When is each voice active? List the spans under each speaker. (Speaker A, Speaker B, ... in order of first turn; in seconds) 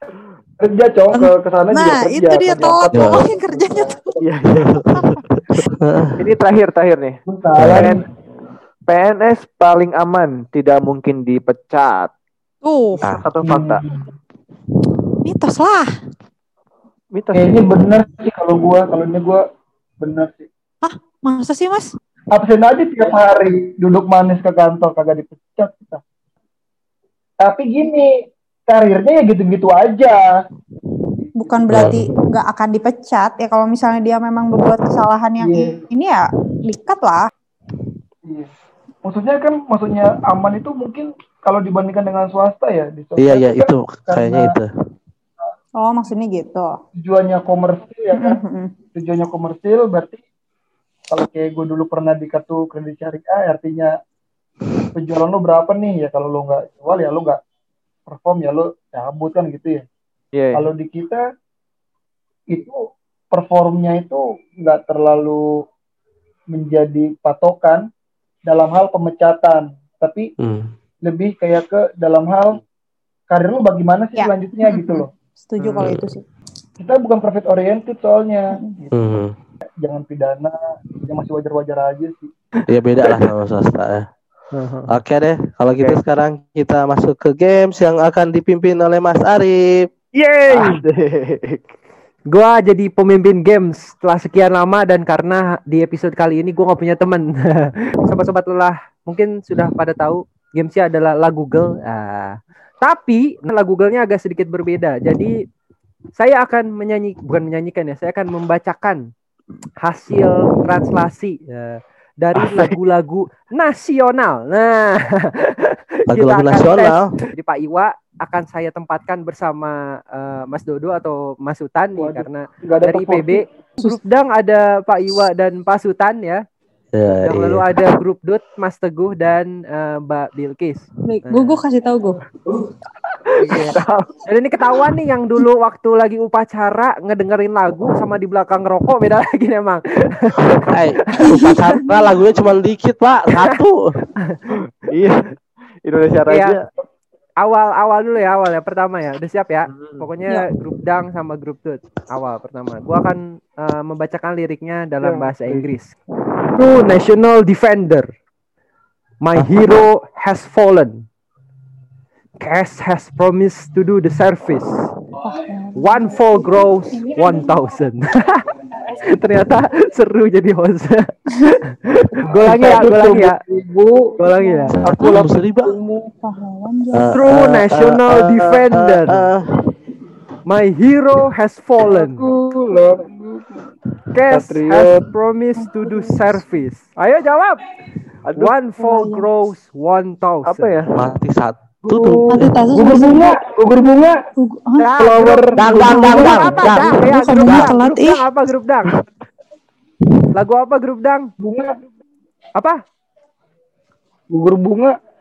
Speaker A: 0.6-4.7, 7.3-8.0, 13.4-14.1, 17.3-19.4, 20.0-20.5, 22.3-26.0, 27.4-30.4, 31.2-32.0, 35.4-35.8, 38.2-38.5, 39.0-44.5, 47.0-48.4, 48.9-50.2, 51.1-54.0, 54.9-57.4, 58.1-59.9, 60.5-61.2, 62.5-62.8, 63.3-65.6, 66.5-67.9, 68.5-70.3, 71.0-72.6, 73.3-75.1, 76.8-79.2, 79.8-82.3, 122.0-123.4, 172.2-174.2, 174.8-175.4, 181.8-183.7, 191.9-194.2, 195.0-196.6, 201.4-201.7, 204.3-205.0
Speaker B: 1.1-4.2, 12.6-13.3, 15.2-16.0, 20.8-21.9, 31.4-37.3, 45.8-46.8, 48.1-48.8, 74.2-76.2, 131.1-132.2, 141.2-141.9, 165.2-167.6, 174.4-177.1, 185.6-186.4, 188.8-189.3, 192.3-193.4, 194.4-194.9, 195.8-198.2
Speaker C: 2.9-3.2, 4.6-6.2, 7.6-7.9, 31.7-32.1, 43.2-44.7, 70.4-70.8, 75.8-76.1, 78.9-79.3, 82.7-84.1, 84.9-89.9, 116.1-117.1, 126.9-127.7, 140.7-143.9, 174.8-175.7, 176.9-179.5, 191.0-192.5, 195.6-197.7
Speaker D: 4.2-4.7, 6.2-7.2, 7.7-8.0, 8.9-12.1, 13.2-13.8, 17.1-17.7, 60.3-60.7, 90.1-91.7, 112.3-112.8, 133.2-134.1, 144.9-146.6, 149.7-150.0, 155.0-155.7, 172.6-172.9, 184.3-184.9, 188.3-188.5, 190.5-191.0
Speaker E: 84.5-84.9, 92.3-105.4, 106.2-109.1, 109.8-126.4, 127.1-131.6, 133.4-141.4, 146.3-146.6, 147.4-155.9, 156.6-158.1, 159.2-161.1, 162.4-164.9, 165.8-173.4, 174.2-174.8, 177.1-179.3, 180.4-182.3, 184.1-187.7, 188.4-190.7, 194.8-199.0, 200.3-201.3